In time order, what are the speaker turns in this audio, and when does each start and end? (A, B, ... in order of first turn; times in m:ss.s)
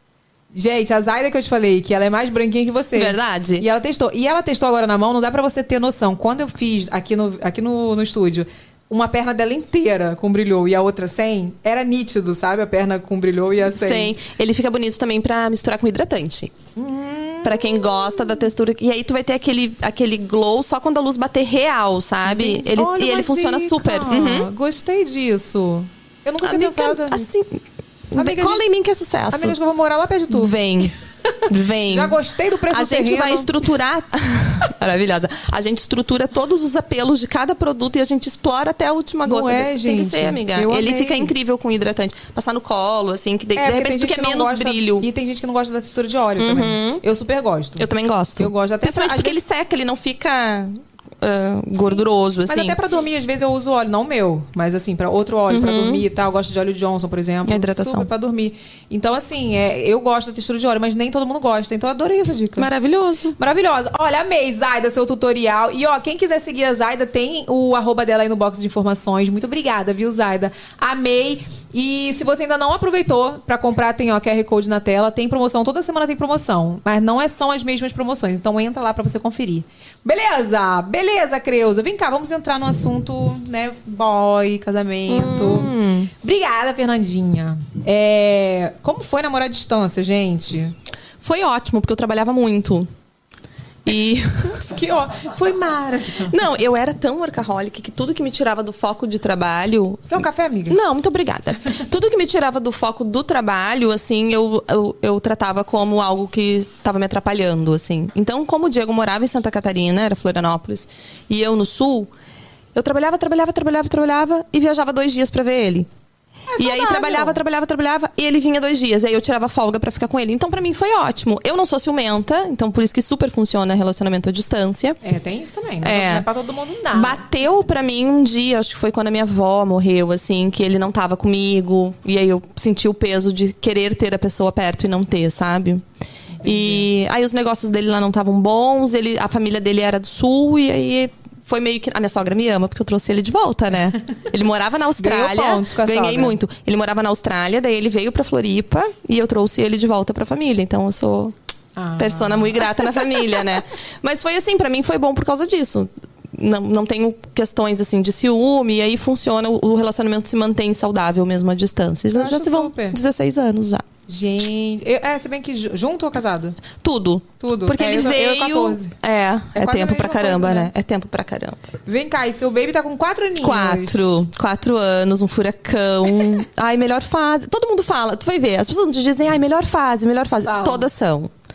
0:00.5-0:14.2 A
0:02.9-0:03.6 B
0:13.6-0:16.6 B
0:16.8-0:18.4 A
0:17.4-0:24.5 B
0:22.2-0:27.3 A
0:26.4-0:29.6 B
0:28.2-0:28.7 A
0:29.3-0:30.6 A
0:30.3-0:31.0 B
0:31.5-0:32.2 B
0:31.9-0:33.6 A
0:32.7-0:45.1 B
0:39.2-0:41.3 A
0:43.6-0:49.4 A
0:46.4-0:47.0 B
0:47.8-0:52.8 B
0:51.8-1:02.7 A
0:55.5-0:56.0 B
0:57.4-0:58.1 B
1:02.6-1:03.4 B
1:03.4-1:30.7 A
1:25.1-1:26.1 B
1:31.2-1:32.9 B
1:33.8-1:34.6 B
1:34.6-1:36.4 A
1:36.3-1:52.1 B
1:40.1-1:40.8 A
1:52.8-1:55.9 B
1:56.5-1:57.4 A
1:56.6-2:05.0 B
2:05.0-2:07.2 A
2:05.8-2:06.3 B
2:06.9-2:15.8 B
2:16.4-2:16.9 A
2:16.4-2:31.4 B
2:25.0-2:26.4 A
2:31.8-2:33.1 A
2:32.0-2:43.8 B
2:42.1-2:43.0 A
2:44.1-2:46.6 A
2:46.8-2:51.6 B
2:47.4-2:49.0 A
2:49.6-2:50.7 A
2:51.9-2:54.2 A
2:53.4-3:01.3 B
3:00.4-3:00.9 A